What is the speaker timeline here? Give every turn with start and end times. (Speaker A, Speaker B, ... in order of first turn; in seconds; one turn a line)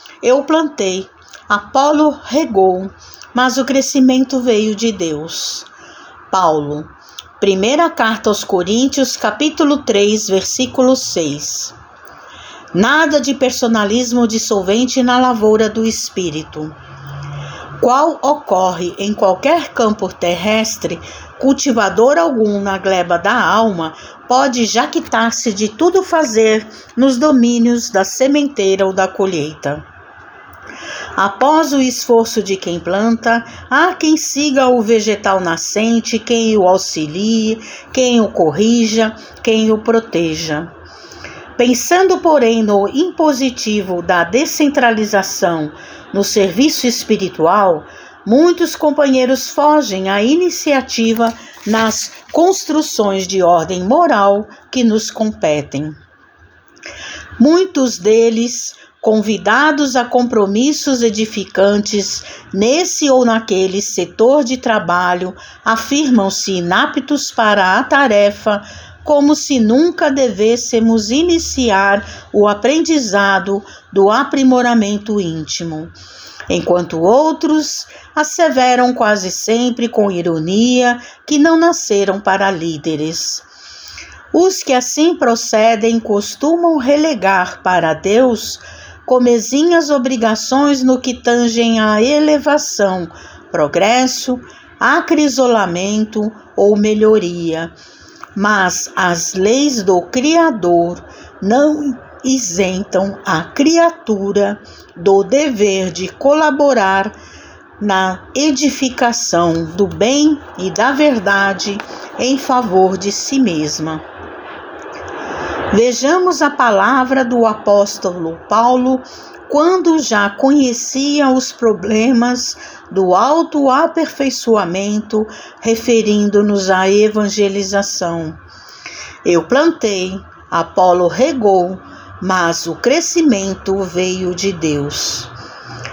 Speaker A: 0.2-5.7
Speaker A: 6.3-11.7
Speaker A: 12.7-16.7
Speaker A: 17.8-29.8
Speaker A: 31.1-40.7
Speaker A: 41.6-56.0
Speaker A: 57.4-75.9
Speaker A: 76.5-83.5
Speaker A: 84.3-97.7
Speaker A: 98.3-107.1
Speaker A: 107.8-114.0
Speaker A: 115.7-128.4
Speaker A: 129.2-135.3